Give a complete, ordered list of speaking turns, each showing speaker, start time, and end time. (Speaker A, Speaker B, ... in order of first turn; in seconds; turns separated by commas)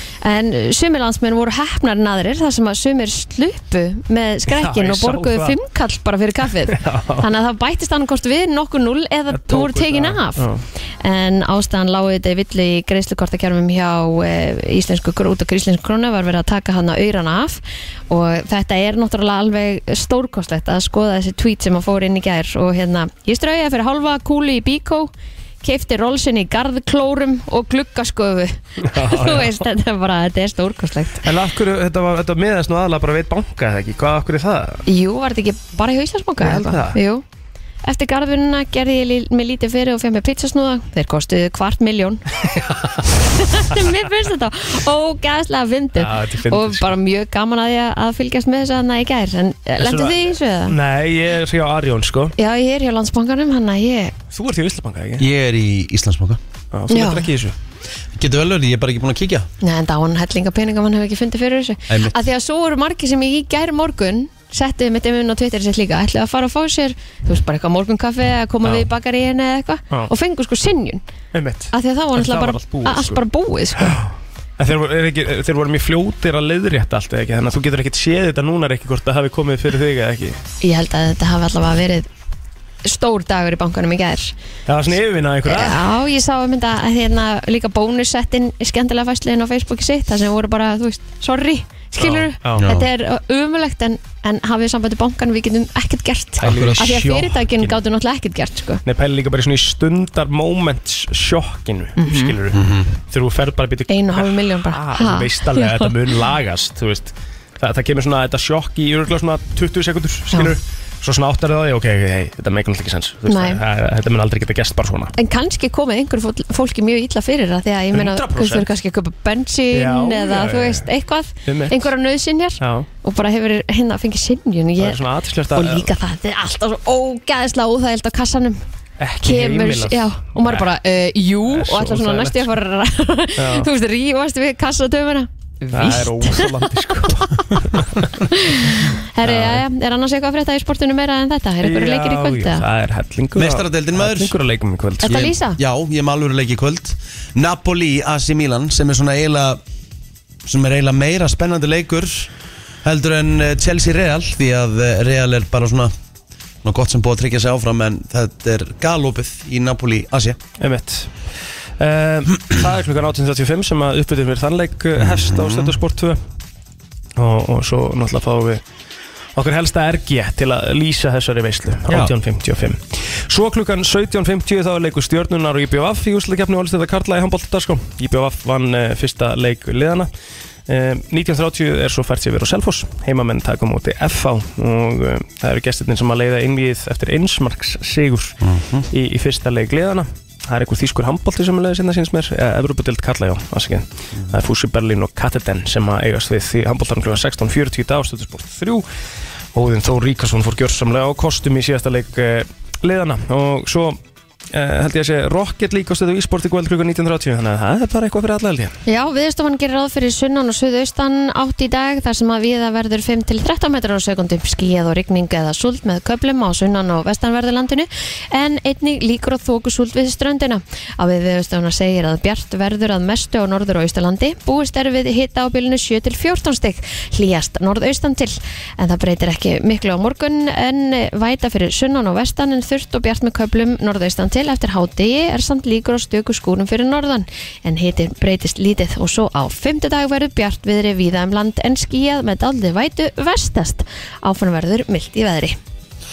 Speaker A: 0.2-10.5, Speaker B: 4.5-5.6, Speaker B: 6.7-7.2, Speaker B: 9.3-10.6, Speaker A: 11.0-25.1, Speaker A: 25.6-31.2, Speaker B: 28.8-29.6, Speaker B: 31.2-34.8, Speaker A: 34.9-37.2, Speaker B: 36.4-37.0, Speaker A: 37.8-42.2, Speaker B: 42.5-42.9, Speaker A: 43.0-50.8, Speaker B: 46.0-46.9, Speaker B: 49.8-52.3, Speaker A: 52.4-54.1, Speaker B: 54.3-55.2, Speaker C: 55.2-56.4, Speaker B: 56.7-57.5, Speaker A: 56.9-57.3, Speaker C: 58.1-59.5, Speaker A: 59.6-71.0, Speaker C: 61.9-62.1, Speaker B: 71.3-73.2, Speaker A: 71.7-74.0, Speaker B: 73.8-80.4, Speaker A: 80.6-82.1, Speaker A: 82.8-84.3, Speaker B: 84.7-85.8, Speaker A: 85.4-98.8, Speaker B: 92.0-92.7, Speaker C: 92.6-92.9, Speaker B: 96.4-97.8, Speaker C: 96.4-96.9, Speaker B: 98.8-115.1, Speaker A: 102.0-102.3, Speaker C: 102.5-102.9, Speaker A: 103.9-105.9, Speaker A: 113.3-113.6, Speaker A: 115.2-128.6, Speaker B: 117.9-118.7, Speaker B: 119.7-120.9, Speaker B: 121.5-121.9, Speaker B: 122.6-122.9, Speaker B: 124.8-125.9, Speaker B: 129.0-130.7, Speaker A: 129.2-142.6, Speaker B: 131.5-132.5, Speaker B: 133.3-133.7, Speaker B: 135.7-138.1, Speaker B: 139.2-139.6, Speaker B: 141.6-145.3, Speaker C: 143.3-144.3, Speaker A: 145.0-145.6, Speaker C: 145.0-149.6, Speaker C: 150.4-152.3, Speaker C: 152.8-155.9, Speaker C: 156.6-160.4, Speaker B: 160.6-166.2, Speaker C: 165.0-165.8, Speaker B: 167.2-168.6, Speaker B: 169.3-180.1, Speaker C: 171.9-172.1, Speaker B: 180.7-188.4, Speaker C: 188.4-188.9, Speaker B: 188.9-198.8, Speaker B: 199.5-204.0, Speaker B: 204.5-208.7, Speaker A: 208.8-245.6